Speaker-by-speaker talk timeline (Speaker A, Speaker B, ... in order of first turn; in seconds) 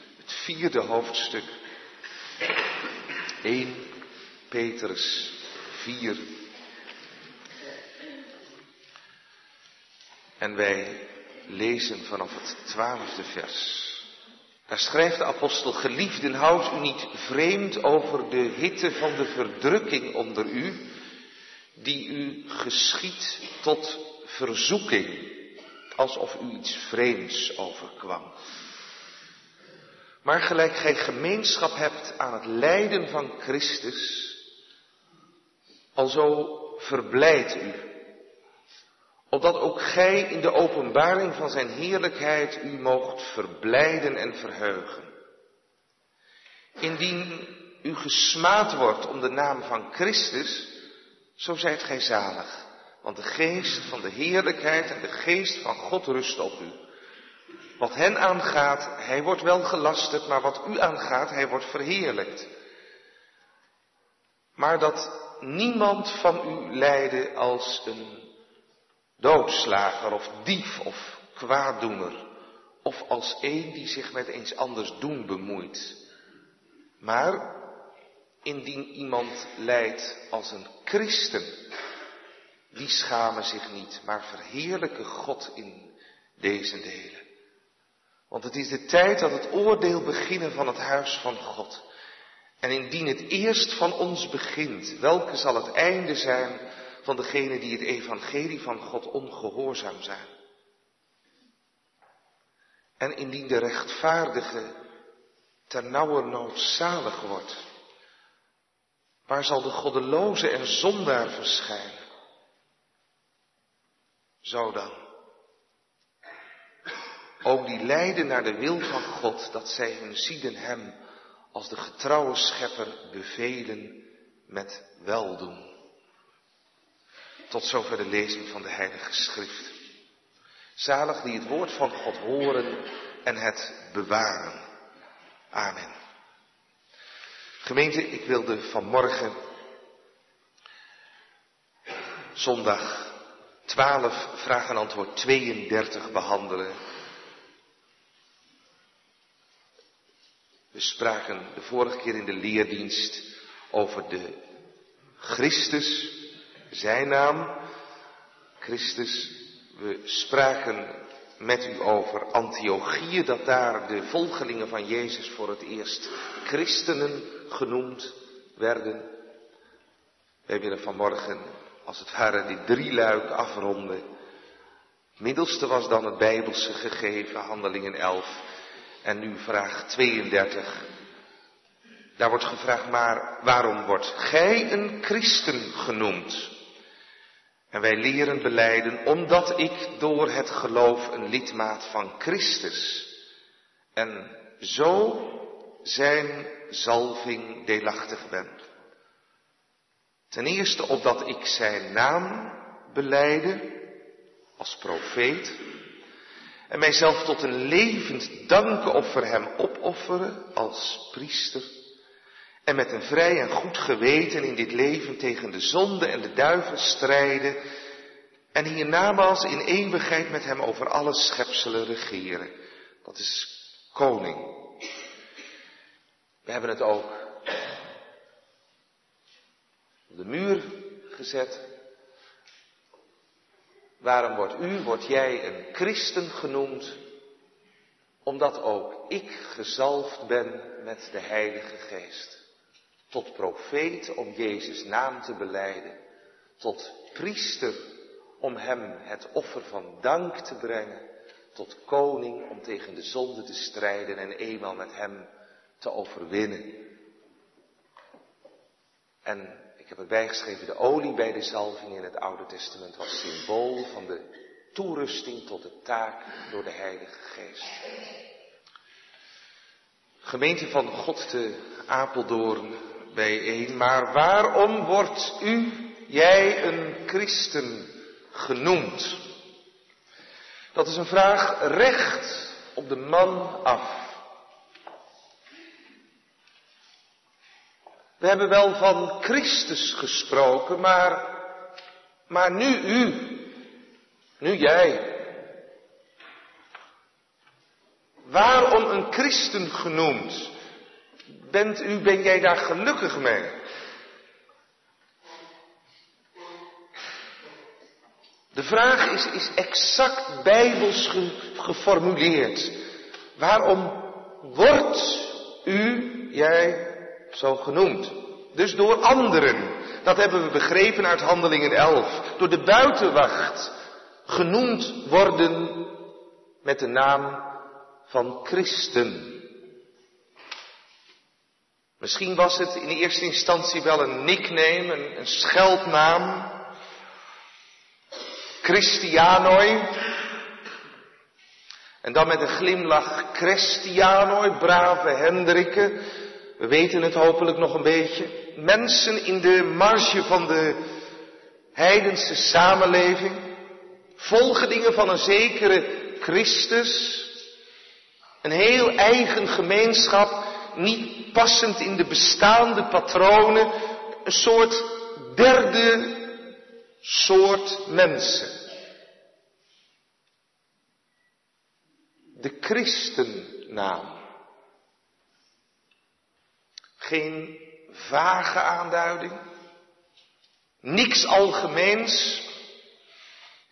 Speaker A: 0.2-1.5, 3.4-3.9, 4.5-6.3, 10.4-14.1, 14.7-20.9, 21.8-25.4, 26.0-28.3, 30.2-34.4, 36.0-37.9, 39.3-45.1, 46.8-50.7, 51.4-56.8, 57.8-62.5, 64.6-68.3, 69.2-72.3, 72.8-76.0, 77.0-77.6, 78.4-81.5, 82.7-87.2, 88.3-91.8, 92.6-100.3, 103.0-104.8, 105.7-107.6, 109.3-112.0, 114.4-115.0, 117.4-121.0, 121.5-125.7, 127.5-129.8, 130.8-134.6, 135.5-135.9, 137.6-139.4, 142.3-146.8, 150.7-154.4, 155.2-157.6, 158.6-169.1, 170.5-174.0, 175.2-178.4, 179.0-180.8, 182.2-186.5, 187.7-193.1, 194.0-198.6, 200.3-203.8, 204.6-205.5, 206.7-211.7, 212.7-217.6, 218.5-224.7, 226.5-227.3, 230.1-231.6, 234.0-237.0, 238.2-242.4, 243.1-246.0, 246.6-247.8, 248.4-251.0, 251.6-255.3, 255.8-256.9, 259.2-267.8, 270.2-279.2, 280.8-284.1, 288.2-291.4, 292.3-293.5, 294.4-295.3, 298.3-300.5, 301.3-303.6, 308.5-312.8, 313.4-323.7, 324.3-326.1, 326.6-327.5, 328.1-329.5, 332.0-336.6, 338.6-340.1, 342.0-346.0, 346.6-350.8, 351.8-353.5, 354.2-357.4, 358.4-368.6, 372.4-374.2, 377.0-379.4, 380.8-382.5